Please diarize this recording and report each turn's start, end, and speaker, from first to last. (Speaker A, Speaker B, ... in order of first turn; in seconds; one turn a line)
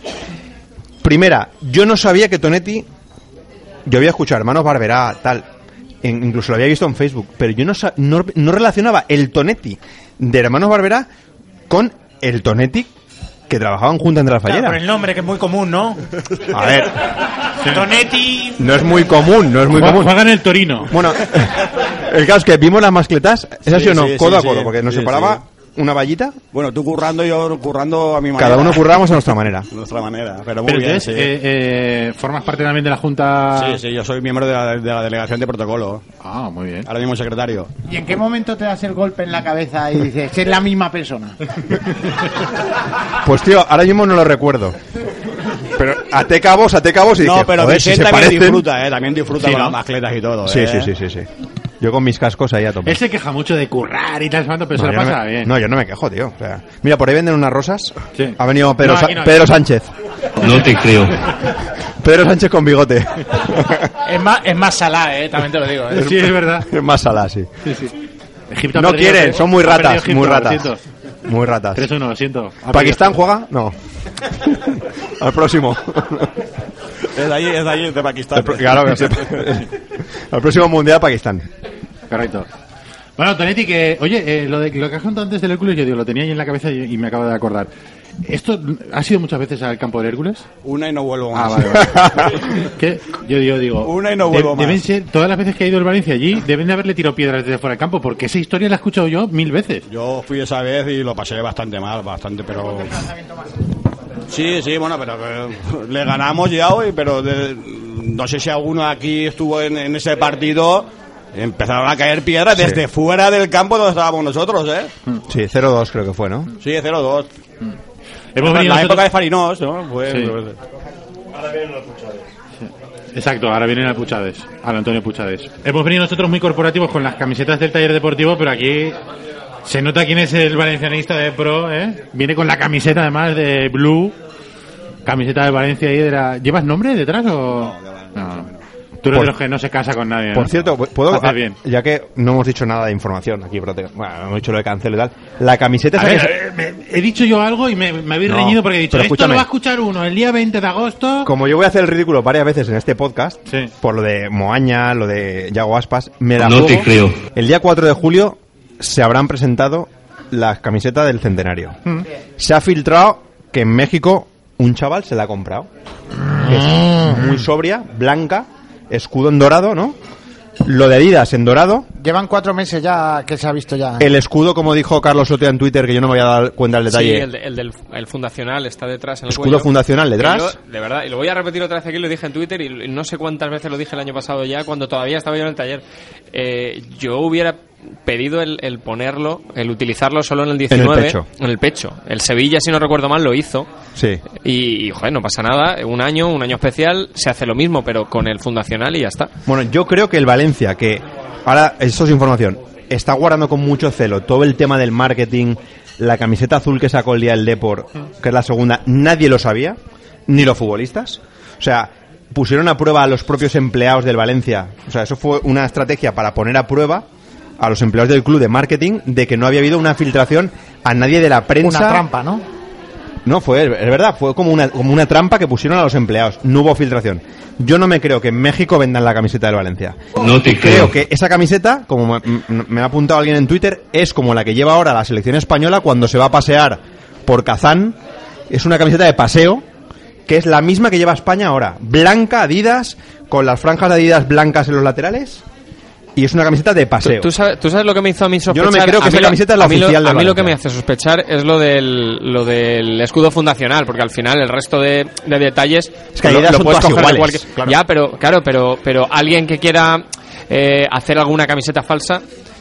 Speaker A: 1.0-2.9
Speaker A: 3.9-5.5
Speaker A: 6.0-11.1
Speaker A: 11.7-12.9
Speaker A: 13.5-14.8
Speaker B: 14.4-16.0
Speaker A: 16.5-17.0
Speaker C: 17.6-17.9
Speaker B: 17.6-18.7
Speaker A: 18.6-20.2
Speaker C: 19.7-20.9
Speaker A: 20.9-26.4
Speaker D: 23.7-25.4
Speaker D: 26.5-28.9
Speaker A: 28.4-29.7
Speaker D: 29.7-31.3
Speaker C: 30.6-33.8
Speaker D: 33.5-36.0
Speaker C: 36.2-36.9
Speaker D: 36.9-37.7
Speaker E: 37.9-41.4
Speaker A: 43.2-44.8
Speaker A: 45.8-48.7
Speaker D: 47.2-50.9
Speaker C: 49.4-49.8
Speaker A: 50.5-51.3
Speaker A: 51.8-53.0
Speaker C: 52.8-55.5
Speaker A: 54.8-59.9
Speaker C: 58.1-59.5
Speaker F: 60.4-61.1
Speaker A: 62.0-63.9
Speaker B: 64.0-66.1
Speaker C: 65.9-66.7
Speaker A: 66.1-67.5
Speaker C: 67.6-67.9
Speaker C: 68.5-70.8
Speaker A: 68.7-70.7
Speaker A: 71.2-71.9
Speaker C: 71.8-73.2
Speaker A: 72.7-73.7
Speaker A: 74.3-76.3
Speaker D: 77.1-79.2
Speaker A: 78.3-81.5
Speaker C: 82.1-82.5
Speaker C: 83.2-87.7
Speaker C: 88.2-90.4
Speaker D: 90.6-92.0
Speaker C: 91.3-99.8
Speaker D: 93.8-94.8
Speaker D: 99.9-103.0
Speaker D: 104.3-114.9
Speaker A: 112.5-112.8
Speaker A: 115.3-116.5
Speaker D: 116.6-117.3
Speaker C: 118.3-119.1
Speaker D: 118.4-120.5
Speaker C: 120.0-120.3
Speaker C: 122.6-129.0
Speaker C: 129.6-134.2
Speaker C: 135.1-138.5
Speaker D: 137.5-138.6
Speaker C: 139.0-141.6
Speaker A: 140.3-146.3
Speaker C: 145.9-151.3
Speaker A: 148.2-149.5
Speaker A: 151.2-161.8
Speaker F: 156.4-157.1
Speaker A: 162.4-165.7
Speaker A: 166.3-170.0
Speaker A: 170.6-171.9
Speaker E: 172.0-174.1
Speaker A: 174.0-177.2
Speaker G: 176.9-193.7
Speaker A: 179.3-180.6
Speaker A: 190.7-191.2
Speaker A: 193.9-194.2
Speaker G: 194.3-199.3
Speaker A: 199.4-217.1
Speaker A: 217.6-222.0
Speaker E: 221.6-222.4
Speaker A: 223.2-238.0
Speaker F: 230.2-230.9
Speaker A: 238.5-239.6
Speaker A: 240.3-245.4
Speaker A: 246.2-247.3
Speaker G: 247.0-262.2
Speaker A: 248.5-250.6
Speaker A: 256.1-257.8